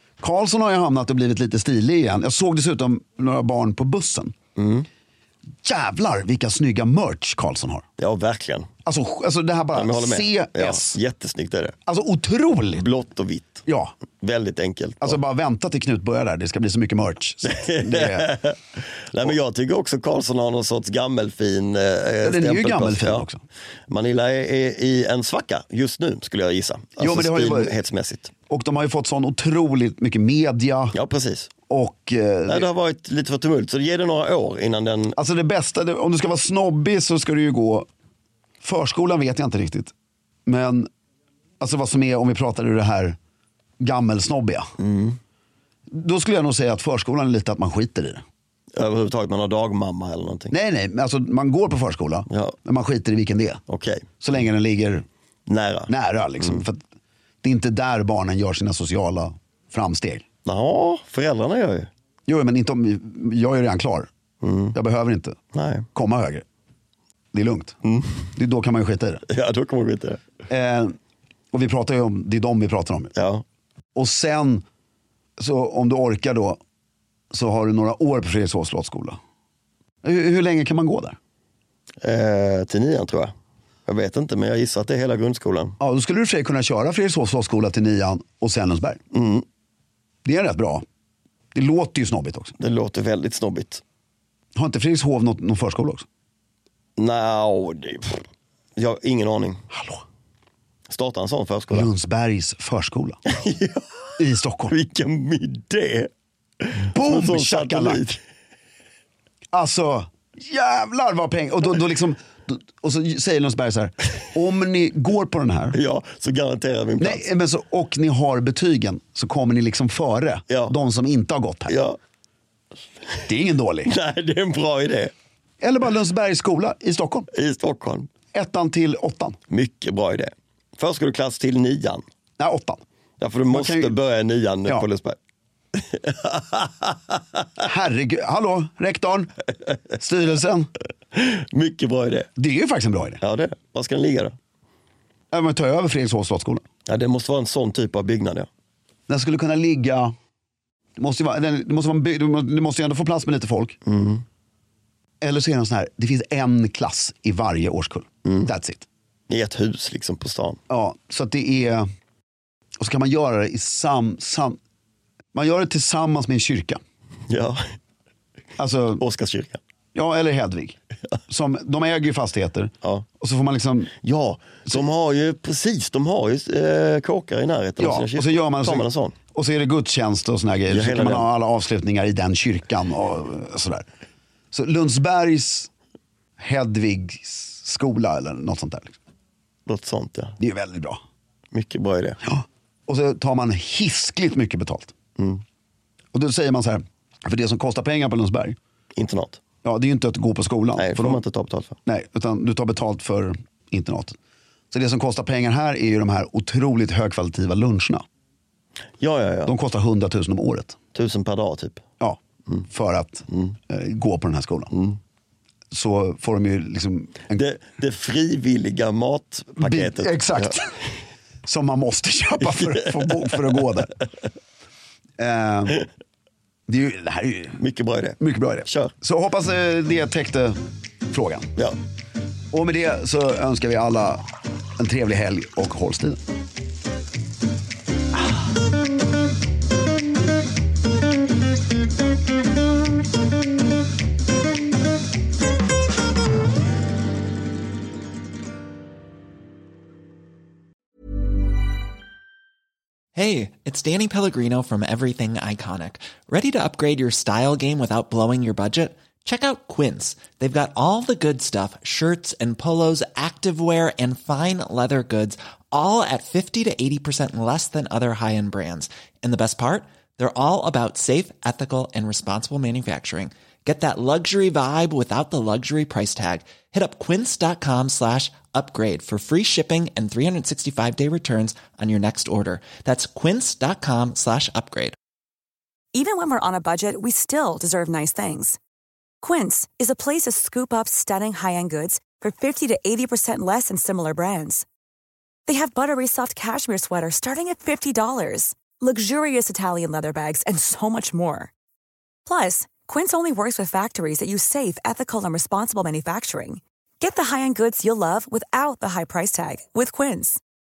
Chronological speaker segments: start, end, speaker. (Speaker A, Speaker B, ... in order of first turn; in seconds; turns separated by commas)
Speaker A: 0.2-4.3, Speaker B: 4.6-4.9, Speaker A: 5.6-7.9, Speaker B: 8.0-8.7, Speaker A: 8.8-11.0, Speaker B: 9.7-11.8, Speaker A: 11.9-12.8, Speaker B: 12.7-13.6, Speaker A: 13.7-13.9, Speaker B: 14.2-15.2, Speaker A: 15.0-18.3, Speaker B: 17.4-23.3, Speaker A: 22.2-23.4, Speaker B: 23.9-28.3, Speaker A: 27.0-27.8, Speaker A: 28.5-31.0, Speaker B: 30.9-31.5, Speaker A: 31.7-32.7, Speaker B: 32.5-35.2, Speaker A: 35.2-37.9, Speaker A: 38.6-39.9, Speaker A: 40.5-40.9, Speaker A: 41.6-43.2, Speaker A: 43.8-44.7, Speaker B: 44.8-45.2, Speaker A: 45.9-48.2, Speaker B: 48.7-50.5, Speaker A: 50.5-53.6, Speaker B: 52.3-52.6, Speaker B: 53.7-54.1, Speaker A: 54.2-55.1, Speaker B: 55.5-56.6, Speaker A: 55.9-56.8, Speaker A: 57.4-60.3, Speaker B: 60.5-61.9, Speaker A: 62.3-64.1, Speaker B: 64.4-64.7, Speaker A: 64.7-65.4, Speaker B: 65.5-65.9, Speaker A: 65.9-66.5, Speaker A: 67.3-67.8, Speaker B: 67.8-68.2, Speaker A: 68.3-69.2, Speaker B: 69.3-70.2, Speaker A: 70.5-71.0, Speaker A: 71.5-73.1, Speaker B: 73.2-73.4, Speaker A: 74.0-74.6, Speaker A: 75.4-76.6, Speaker A: 77.3-79.2, Speaker A: 80.0-81.2, Speaker B: 82.0-83.3, Speaker B: 83.9-85.8, Speaker A: 85.8-89.0, Speaker B: 89.1-89.5, Speaker A: 90.2-90.8, Speaker A: 91.5-92.6, Speaker B: 92.6-93.8, Speaker A: 94.5-96.1, Speaker B: 97.0-98.2, Speaker B: 98.8-99.6, Speaker A: 99.7-100.0, Speaker B: 100.9-101.9, Speaker A: 101.7-103.2, Speaker B: 103.3-103.9, Speaker A: 104.2-104.7, Speaker B: 104.7-106.1, Speaker B: 106.6-108.2, Speaker A: 106.9-108.0, Speaker A: 109.5-115.8, Speaker B: 115.7-117.2, Speaker A: 117.0-121.8, Speaker B: 120.5-120.7, Speaker B: 121.7-122.0, Speaker A: 123.2-123.9, Speaker B: 123.8-125.1, Speaker A: 125.6-127.3, Speaker B: 127.3-128.1, Speaker A: 128.3-129.4, Speaker B: 129.5-132.0, Speaker A: 132.4-132.8, Speaker B: 133.2-135.2, Speaker A: 133.5-134.0, Speaker B: 135.7-137.4, Speaker A: 137.6-139.3, Speaker A: 140.0-140.7, Speaker B: 141.1-142.3, Speaker A: 142.4-143.2, Speaker B: 143.2-144.4, Speaker A: 145.3-146.6, Speaker B: 146.9-148.5, Speaker A: 149.1-150.1, Speaker A: 151.0-153.8, Speaker B: 153.8-154.2, Speaker A: 155.2-158.9, Speaker B: 159.3-160.6, Speaker A: 160.7-161.9, Speaker A: 162.8-164.6, Speaker A: 165.3-166.8, Speaker B: 167.3-167.7, Speaker A: 168.6-169.0, Speaker B: 169.0-169.6, Speaker A: 169.9-173.9, Speaker B: 173.9-179.2, Speaker A: 177.8-183.9, Speaker B: 180.7-181.3, Speaker A: 184.5-185.7, Speaker A: 186.4-188.9, Speaker B: 189.7-190.4, Speaker A: 190.4-191.0, Speaker B: 191.5-192.2, Speaker A: 192.2-194.9, Speaker B: 195.2-195.4, Speaker A: 196.1-198.6, Speaker B: 198.9-199.4, Speaker A: 199.6-201.2, Speaker B: 200.8-201.8, Speaker A: 201.8-204.2, Speaker A: 204.7-208.0, Speaker B: 209.0-209.5, Speaker A: 209.5-210.8, Speaker B: 210.9-211.8, Speaker A: 212.0-214.7, Speaker B: 213.3-213.6, Speaker B: 214.7-215.0, Speaker A: 215.7-217.5, Speaker B: 217.3-220.6, Speaker A: 219.6-220.7, Speaker A: 221.4-223.9, Speaker B: 222.4-223.7, Speaker A: 225.2-225.9, Speaker A: 226.7-227.6, Speaker B: 227.6-228.9, Speaker A: 228.2-230.6, Speaker A: 231.1-231.5, Speaker A: 232.5-234.2, Speaker A: 234.8-236.2, Speaker C: 253.1-284.9, Speaker D: 285.9-288.6, Speaker D: 289.2-294.7, Speaker D: 295.5-301.5, Speaker D: 302.3-310.4